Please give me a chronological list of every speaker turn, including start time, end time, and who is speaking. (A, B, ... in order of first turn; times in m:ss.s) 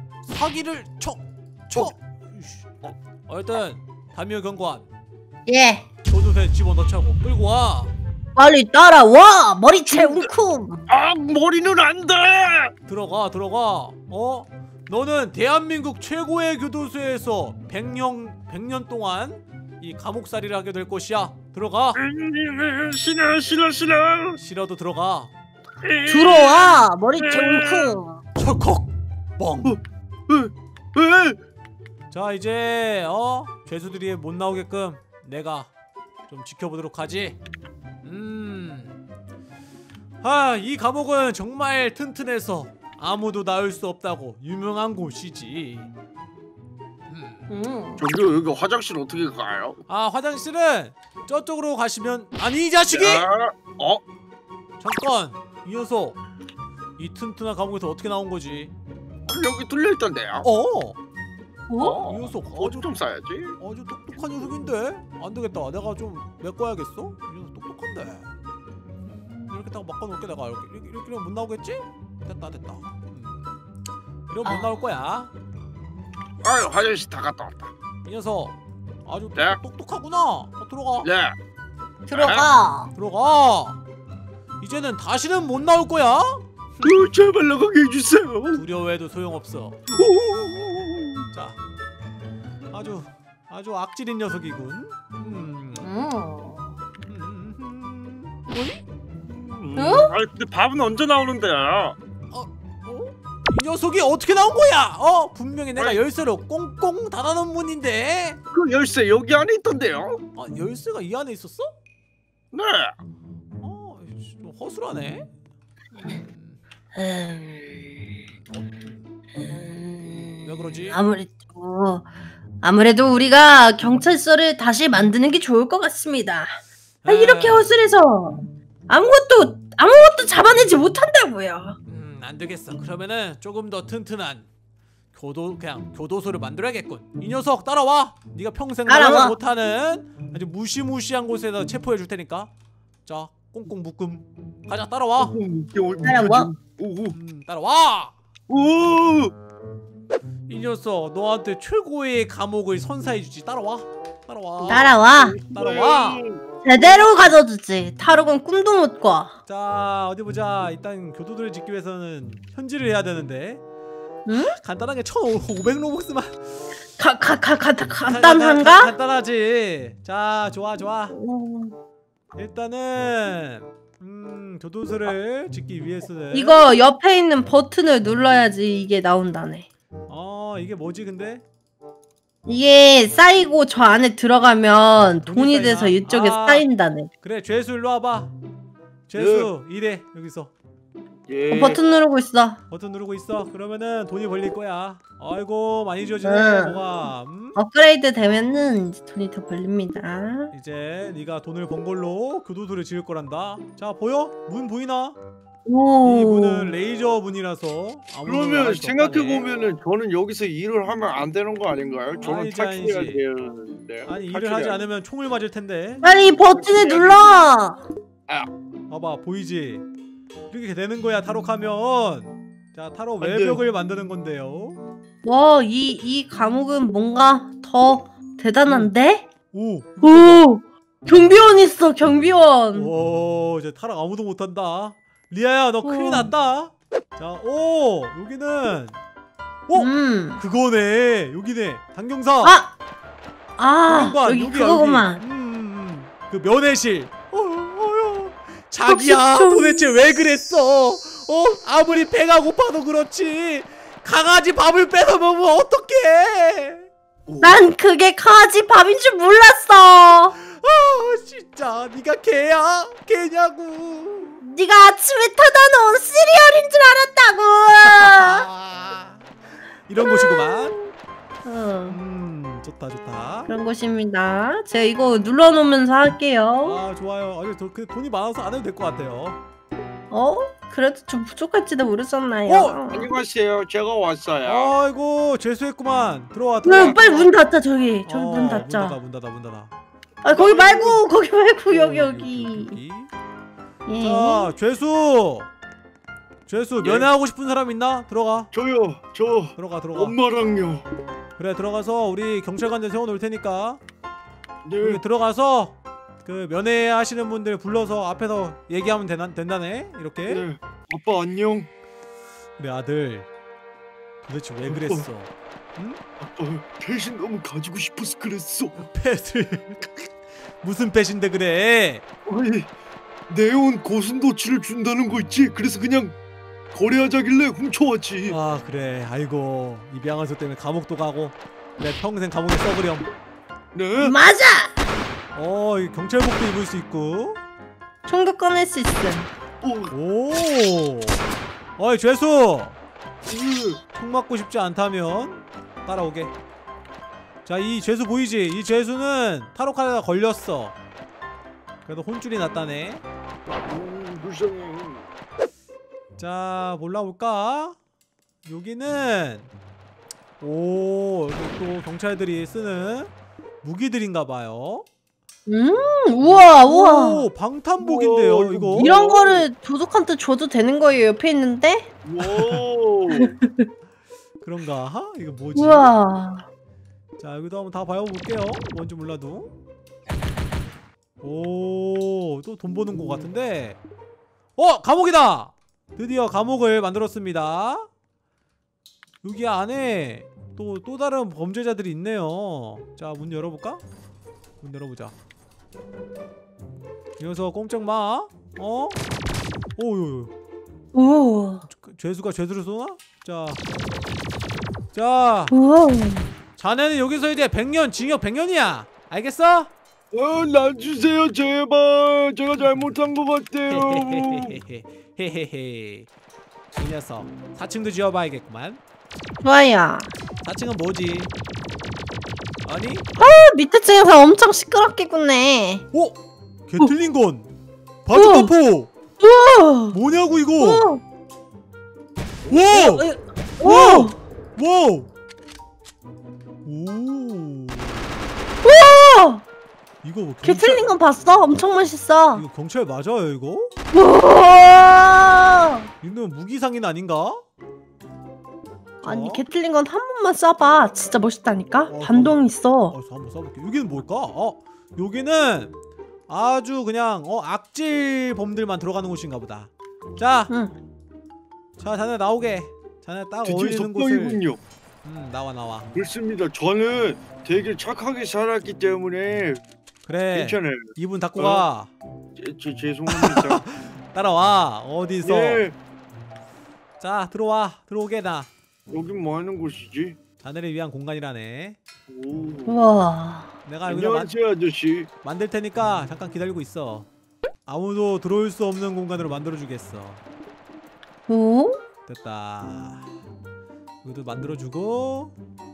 0:00.2-0:02.7 A
0:03.3-0:04.9 A
0:05.5-0:05.9 B
0:06.1-0:07.9 A
0:08.4-0:10.9 B
0:09.9-0:10.3 C
0:10.9-0:12.7 C
0:12.8-0:22.0 A
0:22.1-0:24.4 C
0:24.4-0:25.3 A
0:25.8-0:26.4 C
0:26.0-0:28.2 B
0:27.3-0:27.9 C
0:28.4-0:29.8 A
0:29.6-0:31.4 C
0:32.1-0:35.7 A
0:36.3-0:37.4 A
0:38.0-0:39.0 A
0:40.2-0:45.9 A
0:47.1-0:47.4 A
0:47.5-0:48.0 B
0:48.0-0:49.8 C
0:49.9-0:53.3 A
0:52.9-0:54.0 C
0:54.8-0:56.2 A
0:57.0-0:58.7 A
0:59.2-1:00.4 C
1:00.4-1:01.0 A
1:01.7-1:02.1 B
1:01.8-1:03.6 C
1:01.9-1:02.9 A
1:03.6-1:08.3 A
1:09.5-1:13.4 A
1:14.3-1:15.3 A
1:14.4-1:14.8 B
1:16.4-1:17.7 C
1:18.0-1:21.1 A
1:21.0-1:21.3 C
1:22.1-1:22.9 B
1:22.1-1:22.5 C
1:22.9-1:23.8 A
1:24.6-1:26.4 A
1:26.8-1:28.6 C
1:28.5-1:29.8 A
1:29.9-1:31.2 C
1:31.3-1:31.6 A
1:32.7-1:35.9 A
1:35.8-1:36.8 B
1:37.1-1:38.5 A
1:39.3-1:42.0 C
1:39.7-1:40.2 B
1:42.3-1:48.4 A
1:48.5-1:50.2 C
1:50.4-1:51.7 A
1:52.5-1:52.9 C
1:53.6-1:55.3 A
1:55.9-1:56.6 A
1:56.9-1:58.0 B
1:58.3-1:59.1 A
1:59.4-2:02.1 B
2:00.4-2:01.0 A
2:02.6-2:11.8 B
2:07.0-2:07.8 A
2:11.8-2:14.5 A
2:15.1-2:22.5 A
2:18.9-2:19.4 B
2:23.0-2:25.4 A
2:25.2-2:27.2 C
2:26.0-2:26.5 B
2:27.1-2:28.1 A
2:28.5-2:29.3 C
2:30.5-2:36.2 A
2:34.6-2:36.4 C
2:34.7-2:35.4 B
2:36.6-2:39.3 B
2:39.4-2:43.6 A
2:44.2-2:44.6 B
2:44.3-2:46.6 A
2:47.0-2:48.9 B
2:48.0-2:51.2 A
2:51.1-2:51.7 B
2:52.4-2:56.6 A
2:56.3-2:59.6 B
3:00.1-3:01.4 A
3:02.4-3:07.1 B
3:05.2-3:06.6 A
3:07.2-3:08.3 A
3:09.1-3:10.5 A
3:09.1-3:09.5 C
3:11.3-3:11.8 C
3:11.5-3:12.6 B
3:12.7-3:17.6 A
3:16.2-3:16.8 B
3:17.6-3:20.5 B
3:20.5-3:25.2 A
3:25.6-3:26.7 B
3:26.0-3:29.4 A
3:28.2-3:34.8 C
3:32.2-3:33.2 A
3:34.0-3:36.0 A
3:36.0-3:37.8 B
3:36.5-3:37.2 C
3:38.9-3:39.8 A
3:40.5-3:44.8 A
3:43.2-3:43.6 C
3:45.2-3:49.2 B
3:48.6-3:48.9 A
3:49.5-3:50.5 A
3:50.0-3:52.9 B
3:52.7-3:59.0 A
3:55.8-3:56.3 B
3:59.7-4:02.6 A
3:59.7-4:00.4 B
4:02.4-4:02.7 B
4:03.6-4:05.2 B
4:03.8-4:16.9 A
4:08.8-4:10.0 B
4:17.3-4:17.6 C
4:17.4-4:20.4 B
4:20.4-4:24.4 A
4:24.4-4:28.5 B
4:27.8-4:29.2 A
4:29.9-4:30.8 A
4:30.0-4:30.8 B
4:31.4-4:32.0 B
4:31.9-4:33.5 A
4:33.5-4:36.8 B
4:36.6-4:39.4 A
4:40.1-4:43.1 B
4:42.5-4:42.8 A
4:42.9-4:44.7 C
4:44.4-4:47.3 A
4:46.6-4:49.0 B
4:48.0-4:49.7 A
4:50.2-4:52.8 B
4:50.3-4:51.0 C
4:51.7-4:53.1 A
4:53.8-4:54.5 B
4:54.0-4:55.5 A
4:56.5-4:58.5 A
4:56.8-4:57.1 C
4:58.5-5:00.9 C
4:59.6-5:00.2 A
5:01.4-5:03.8 A
5:04.6-5:05.0 C
5:04.8-5:10.4 A
5:10.3-5:11.7 C
5:12.6-5:13.3 A
5:14.2-5:16.0 A
5:14.7-5:15.1 C
5:16.2-5:18.8 C
5:18.8-5:22.0 A
5:22.2-5:22.7 C
5:23.3-5:26.2 C
5:26.7-5:28.4 C
5:28.3-5:33.1 A
5:33.7-5:34.1 C
5:34.0-5:34.9 B
5:35.3-5:37.4 A
5:38.0-5:39.3 B
5:39.6-5:39.9 C
5:39.9-5:41.2 A
5:41.8-5:42.8 A
5:43.2-5:43.8 C
5:43.9-5:46.3 A
5:47.4-5:50.8 A
5:51.8-5:53.0 A
5:53.7-5:55.0 C
5:56.2-5:57.8 A
5:58.4-5:59.5 A
6:00.4-6:03.1 A
6:03.6-6:04.8 A
6:05.5-6:07.3 B
6:06.2-6:09.0 A
6:07.8-6:09.4 C
6:08.8-6:11.9 B
6:12.0-6:13.3 C
6:12.2-6:12.6 A
6:13.1-6:13.7 B
6:14.4-6:15.9 A
6:15.5-6:16.4 B
6:17.2-6:19.5 A
6:21.2-6:23.8 A
6:24.6-6:27.9 A
6:29.2-6:33.8 A
6:34.6-6:35.1 A
6:37.2-6:39.0 A
6:39.8-6:40.3 A
6:40.9-6:41.6 B
6:41.6-6:43.6 A
6:44.9-6:45.5 A
6:45.5-6:46.3 B
6:46.6-6:49.7 A
6:50.1-6:54.6 C
6:53.7-6:56.1 A
6:56.7-6:58.8 A
6:59.4-7:00.1 B
7:00.4-7:01.3 A
7:02.6-7:03.1 A
7:03.2-7:05.8 B
7:05.9-7:07.5 A
7:08.0-7:08.9 A
7:08.1-7:08.5 B
7:09.2-7:10.0 B
7:09.9-7:10.9 A
7:10.6-7:11.0 B
7:12.5-7:13.1 A
7:12.5-7:14.2 B
7:13.6-7:15.1 A
7:16.6-7:18.1 A
7:18.6-7:19.4 B
7:20.0-7:20.9 A
7:20.4-7:22.4 B
7:22.3-7:23.7 A
7:23.9-7:25.9 B
7:26.0-7:27.4 A
7:29.0-7:29.4 A
7:29.0-7:32.9 B
7:31.9-7:35.7 A
7:36.3-7:40.5 A
7:40.5-7:40.7 B
7:41.8-7:44.4 A
7:43.4-7:44.6 C
7:45.0-7:45.9 A
7:45.9-7:49.6 C
7:50.0-7:51.9 A
7:50.3-7:51.6 C
7:52.4-7:53.6 C
7:53.1-7:55.6 A
7:55.2-7:55.8 C
7:57.0-7:58.5 A
7:58.9-8:00.2 C
8:00.4-8:01.8 A
8:02.1-8:02.9 C
8:02.7-8:03.5 B
8:03.6-8:04.3 A
8:03.9-8:05.1 C
8:05.2-8:07.1 A
8:07.6-8:10.2 A
8:11.3-8:11.8 B
8:12.0-8:13.1 A
8:14.0-8:15.4 A